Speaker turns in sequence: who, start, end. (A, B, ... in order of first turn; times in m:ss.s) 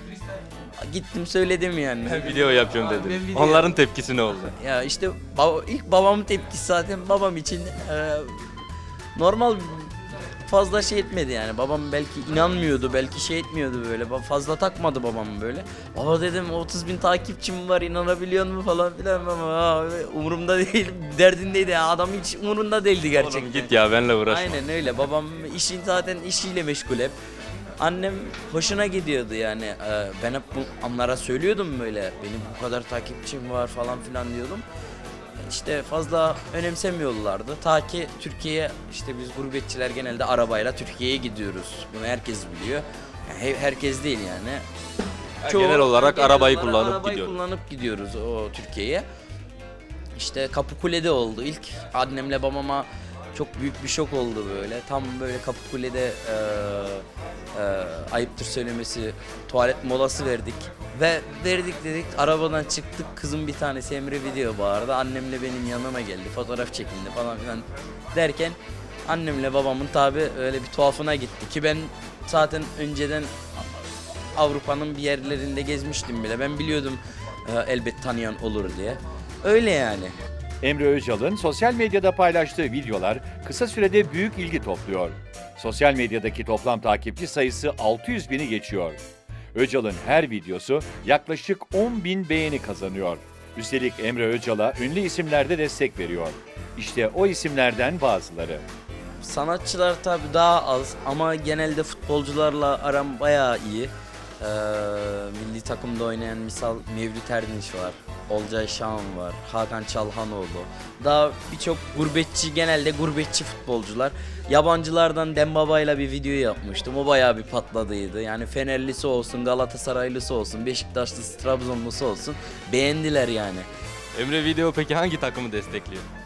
0:00.8-0:02.4 A
0:02.1-0:04.5 B
0:03.3-0:03.7 A
0:04.6-0:08.6 A
0:09.2-0:23.7 A
0:23.2-0:24.5 B
0:24.2-0:27.2 A
0:27.8-0:34.6 A
0:35.4-0:44.6 A
0:45.4-0:47.3 B
0:45.5-0:49.0 A
0:50.2-1:20.2 A
1:20.6-1:29.0 C
1:29.5-1:38.6 C
1:39.2-2:03.7 A
2:04.2-2:06.1 B